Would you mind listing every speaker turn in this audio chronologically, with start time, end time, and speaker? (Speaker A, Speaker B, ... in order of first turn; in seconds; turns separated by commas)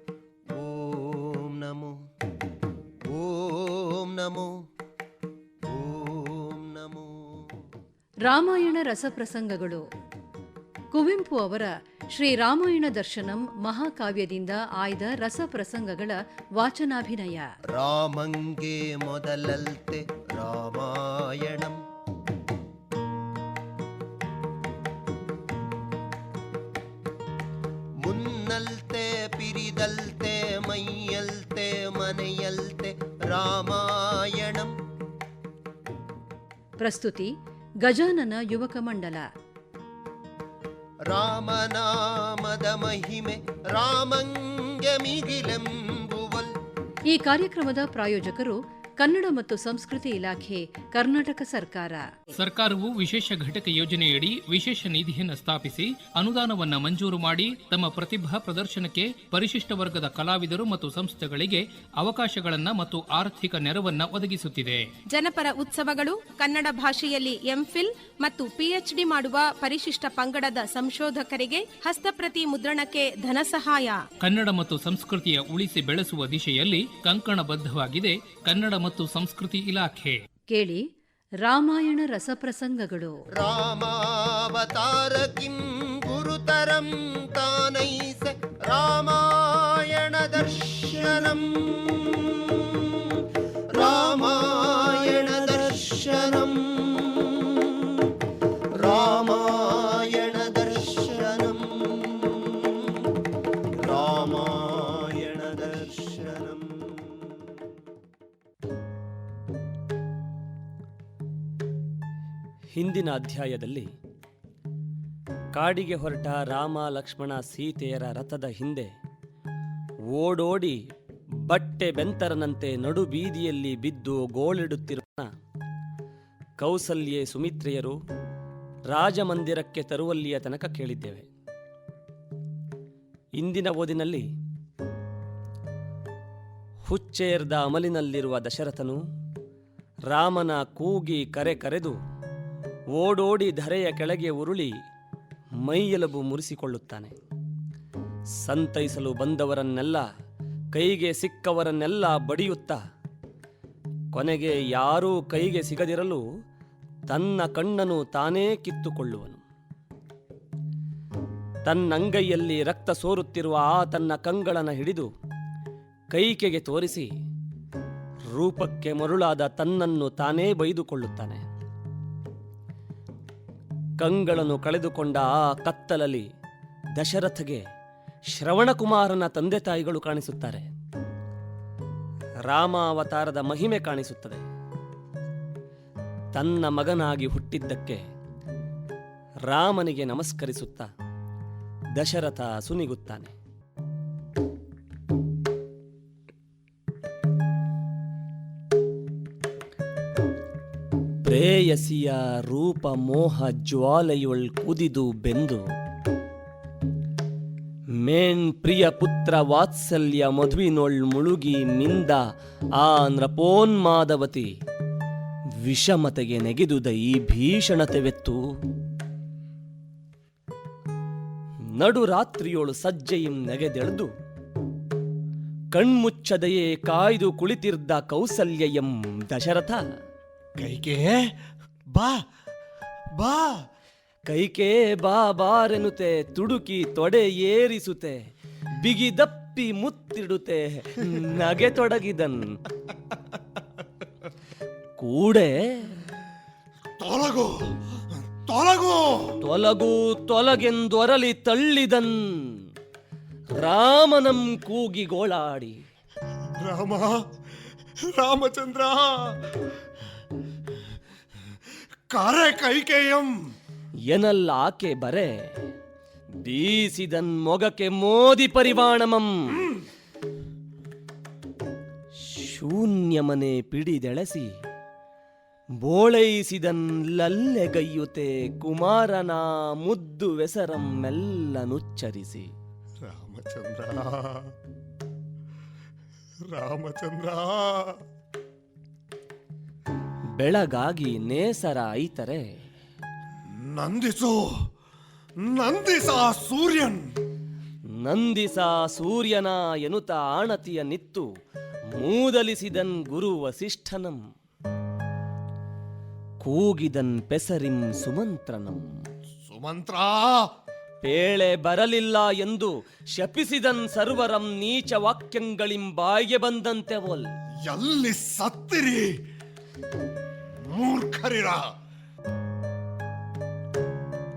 Speaker A: 0.6-1.9, Speaker A: 3.1-4.5, Speaker A: 5.7-7.4, Speaker B: 8.3-9.8, Speaker B: 10.9-17.5, Speaker A: 17.7-21.8, Speaker A: 28.0-34.7, Speaker B: 36.8-37.3, Speaker B: 37.8-39.2, Speaker A: 41.1-46.5, Speaker B: 47.1-52.0, Speaker C: 52.4-64.8, Speaker D: 65.1-74.0, Speaker C: 74.2-80.1, Speaker B: 80.5-80.8, Speaker B: 81.4-83.2, Speaker A: 83.4-93.2, Speaker A: 93.7-98.0, Speaker A: 98.7-103.0, Speaker A: 103.8-107.1, Speaker E: 112.7-113.9, Speaker E: 115.5-118.9, Speaker E: 120.1-120.8, Speaker E: 121.5-125.3, Speaker E: 126.6-128.0, Speaker E: 128.9-131.3, Speaker E: 133.4-134.2, Speaker E: 136.8-139.0, Speaker E: 140.1-142.0, Speaker E: 142.9-144.7, Speaker E: 145.6-147.1, Speaker E: 148.4-150.0, Speaker E: 150.7-152.8, Speaker E: 154.1-156.2, Speaker E: 157.1-159.4, Speaker E: 161.6-165.1, Speaker E: 166.1-167.1, Speaker E: 168.3-171.4, Speaker E: 174.0-176.2, Speaker E: 176.9-177.6, Speaker E: 178.3-180.7, Speaker E: 182.5-184.4, Speaker E: 186.3-188.0, Speaker E: 189.5-190.9, Speaker E: 191.9-193.3, Speaker E: 201.2-205.6, Speaker E: 208.0-212.2, Speaker E: 212.8-214.5, Speaker E: 215.6-218.4, Speaker E: 221.8-224.1, Speaker E: 225.7-229.8, Speaker F: 230.6-231.3, Speaker F: 231.9-232.2, Speaker F: 233.2-233.6, Speaker E: 234.3-238.2, Speaker E: 238.8-242.4, Speaker E: 245.0-246.0, Speaker F: 247.0-247.7, Speaker F: 248.3-249.4, Speaker E: 249.4-252.4, Speaker E: 253.6-255.8, Speaker F: 256.6-257.2, Speaker F: 258.1-259.6, Speaker F: 262.1-263.3, Speaker E: 264.1-265.3, Speaker E: 266.4-269.8, Speaker E: 272.3-274.5, Speaker E: 275.8-282.5, Speaker F: 283.0-284.5, Speaker F: 286.5-288.0, Speaker E: 290.4-292.4, Speaker F: 293.5-294.5, Speaker F: 295.4-297.1, Speaker E: 298.0-301.2, Speaker E: 302.0-304.2, Speaker E: 306.4-308.9, Speaker F: 309.5-310.5, Speaker E: 311.0-317.2, Speaker F: 317.7-319.1, Speaker F: 320.6-321.6